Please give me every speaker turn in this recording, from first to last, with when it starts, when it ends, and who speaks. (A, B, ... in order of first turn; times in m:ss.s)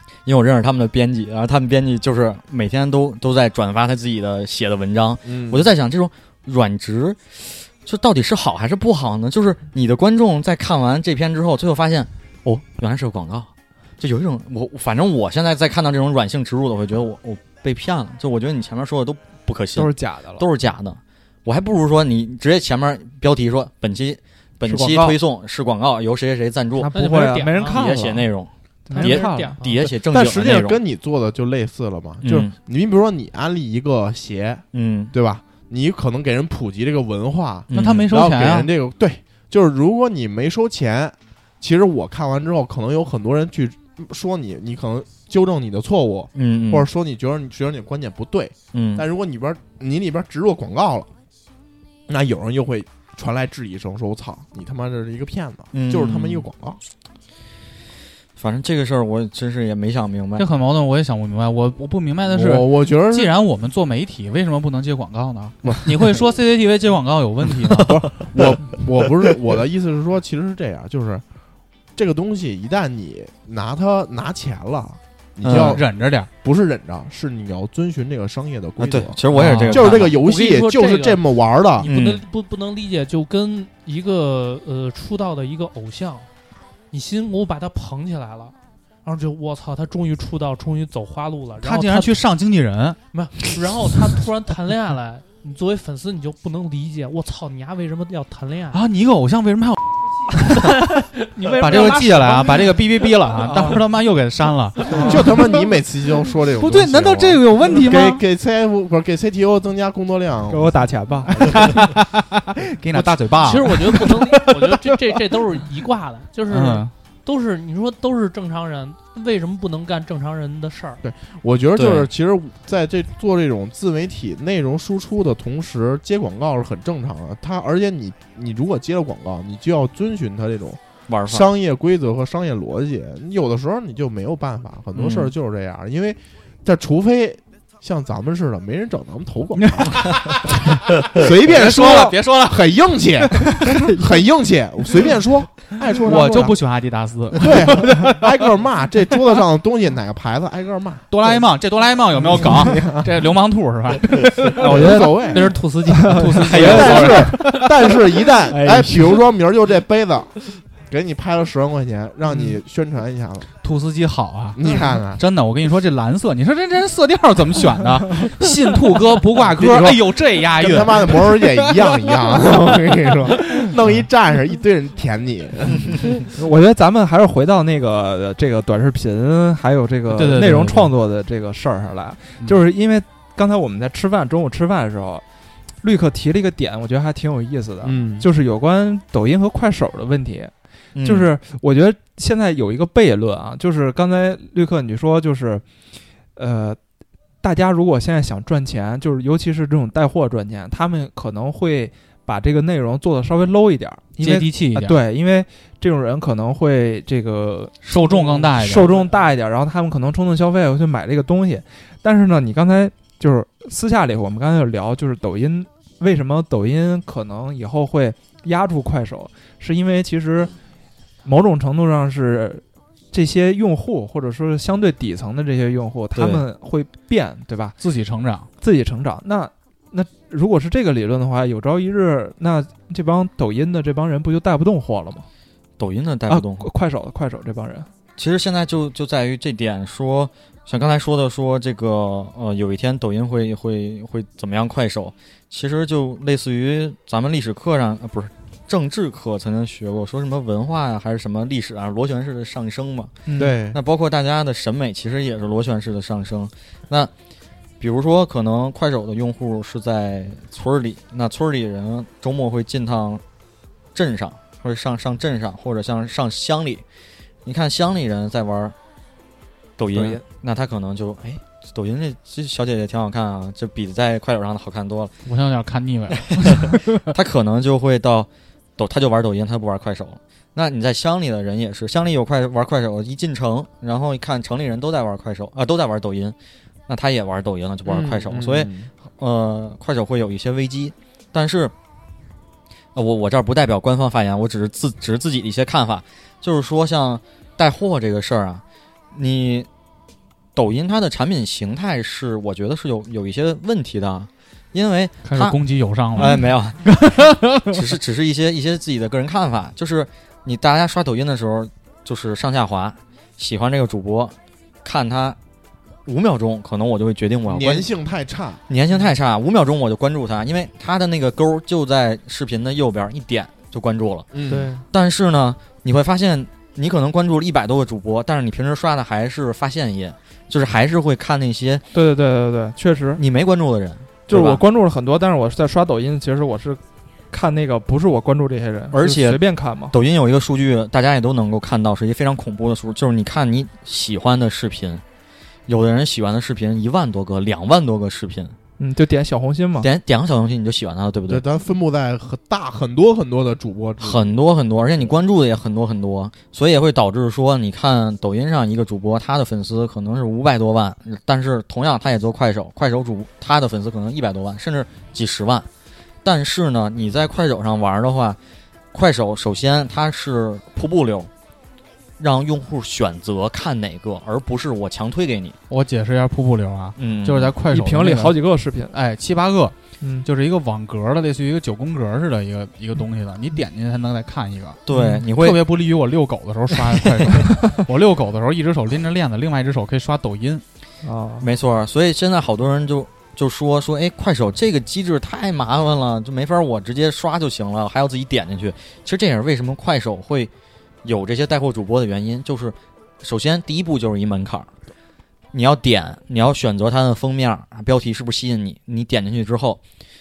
0:00.3-0:27.0 A
0:05.2-0:05.7 B
0:19.8-0:20.5 C
0:24.6-0:25.2 C
0:26.8-0:28.3 C
0:26.9-0:27.9 D
0:27.6-0:30.8 A
0:28.9-0:30.6 C
0:28.9-0:29.8 D
0:30.2-0:51.1 B
0:32.2-0:32.6 A
0:34.7-0:35.1 A
0:37.7-0:38.1 A
0:37.7-0:38.7 E
0:46.4-0:46.9 A
0:48.7-0:49.1 A
0:52.1-0:56.8 B
0:55.7-0:56.5 A
0:58.4-1:00.4 A
1:00.4-1:08.8 E
1:02.3-1:03.3 B
1:05.6-1:06.2 B
1:07.9-1:11.2 B
1:12.0-1:21.9 B
1:15.4-1:15.8 A
1:15.5-1:16.3 E
1:18.8-1:20.2 A
1:19.3-1:19.8 E
1:19.7-1:26.3 D
1:21.8-1:22.2 A
1:26.9-1:32.2 D
1:31.6-1:33.0 E
1:33.1-1:38.8 D
1:38.7-1:41.0 E
1:40.6-1:43.7 D
1:41.6-1:45.3 E
1:43.4-1:43.8 C
1:44.8-1:45.3 C
1:45.0-1:51.8 B
1:46.6-1:48.2 E
1:50.5-1:51.8 C
1:51.4-1:54.9 E
1:53.3-2:01.0 D
1:56.5-1:56.9 E
2:01.0-2:20.5 B
2:01.8-2:02.1 A
2:11.1-2:11.5 A
2:15.0-2:15.3 A
2:19.7-2:20.5 E
2:21.1-2:26.6 B
2:21.2-2:22.8 E
2:23.6-2:24.1 C
2:26.0-2:28.1 E
2:27.4-2:31.2 B
2:31.1-2:34.9 E
2:32.3-2:33.1 B
2:34.4-2:37.7 C
2:34.6-2:35.4 B
2:34.7-2:37.1 D
2:36.1-2:37.7 E
2:36.6-2:40.3 B
2:38.5-2:39.2 C
2:40.9-2:43.5 B
2:43.6-2:44.6 E
2:44.6-2:45.2 B
2:45.2-2:51.3 E
2:49.6-2:56.1 B
2:56.3-3:16.8 C
3:00.1-3:00.9 E
3:07.8-3:08.3 B
3:11.0-3:11.3 A
3:17.4-3:40.5 C
3:24.2-3:25.0 E
3:27.8-3:29.1 E
3:41.2-3:47.8 C
3:46.2-3:46.4 A
3:47.8-3:48.5 E
3:48.6-3:55.3 C
3:55.8-3:56.7 A
3:56.3-3:57.9 C
3:58.2-4:17.1 A
4:13.3-4:13.6 C
4:13.4-4:13.8 B
4:17.8-4:23.2 A
4:23.9-4:26.8 A
4:27.4-4:28.8 A
4:29.8-4:35.1 A
4:29.9-4:30.2 C
4:35.2-4:36.9 E
4:37.1-4:46.4 A
4:46.9-4:51.7 A
4:47.9-4:48.9 B
4:53.0-4:59.7 A
5:00.6-5:05.6 A
5:05.2-5:07.8 E
5:06.2-5:15.4 A
5:16.1-5:17.9 A
5:17.5-5:18.6 B
5:18.7-5:24.3 A
5:24.3-5:24.7 B
5:24.5-5:24.8 C
5:24.9-5:31.8 A
5:31.9-5:33.2 C
5:33.2-5:34.6 A
5:34.3-5:40.0 C
5:38.9-5:45.0 A
5:45.7-5:48.6 A
5:48.8-5:49.9 C
5:49.8-5:51.4 A
5:51.3-5:54.4 B
5:54.0-6:05.7 A
6:06.2-6:08.4 A
6:08.9-6:11.3 A
6:12.2-6:15.6 A
6:15.7-6:18.4 E
6:17.0-6:17.5 A
6:17.7-6:19.0 C
6:18.9-6:30.6 E
6:20.0-6:20.3 C
6:24.9-6:25.6 A
6:24.9-6:25.2 C
6:31.0-6:31.5 C
6:31.4-6:40.5 A
6:41.0-6:44.7 A
6:45.5-6:49.8 A